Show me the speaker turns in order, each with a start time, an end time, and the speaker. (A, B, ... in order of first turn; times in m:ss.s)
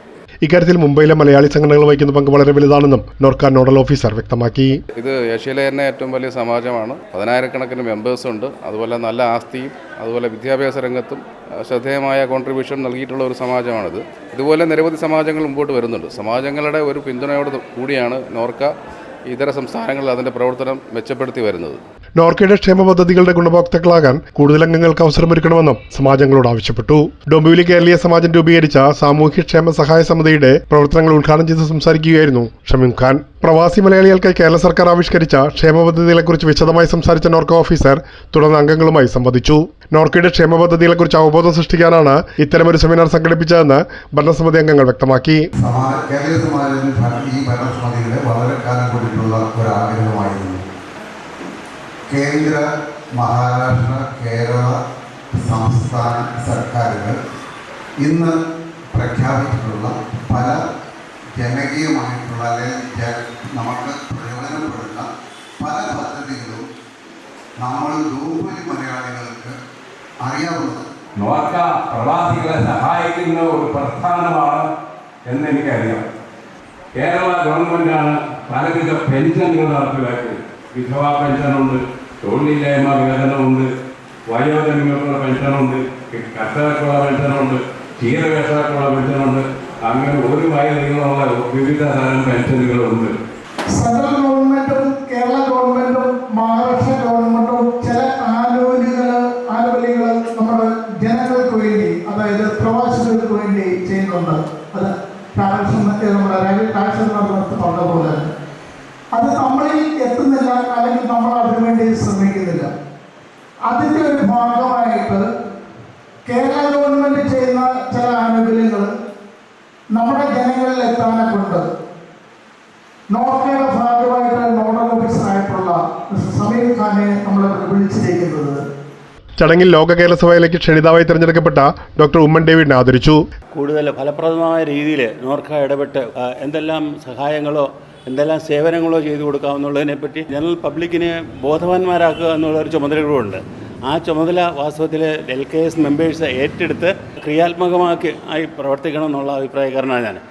0:00.4-0:04.8 A
0:05.0-0:18.7 B
0:19.3-0:21.8 B
0:22.2-0:45.4 A
0:45.6-0:50.6 C
0:52.1-0:54.7 C
0:55.3-0:57.2 C
0:58.0-0:58.4 C
0:58.9-1:00.6 C
1:01.4-1:05.0 C
1:05.6-1:06.6 C
1:07.6-1:09.5 C
1:10.2-1:10.9 C
1:11.2-1:14.6 D
1:11.3-1:14.6 B
1:15.3-1:16.0 B
1:15.3-1:16.0 D
1:17.0-1:21.8 D
1:17.0-1:23.6 B
1:22.4-1:23.7 D
1:24.3-1:29.0 B
1:24.3-1:33.1 D
1:29.9-1:31.9 B
1:32.5-1:33.0 B
1:33.7-1:48.3 E
1:49.1-1:52.7 E
1:53.7-1:55.2 E
1:56.2-1:58.9 E
1:59.9-2:01.6 E
2:03.1-2:08.6 E
2:09.4-2:13.2 A
2:13.5-2:30.2 F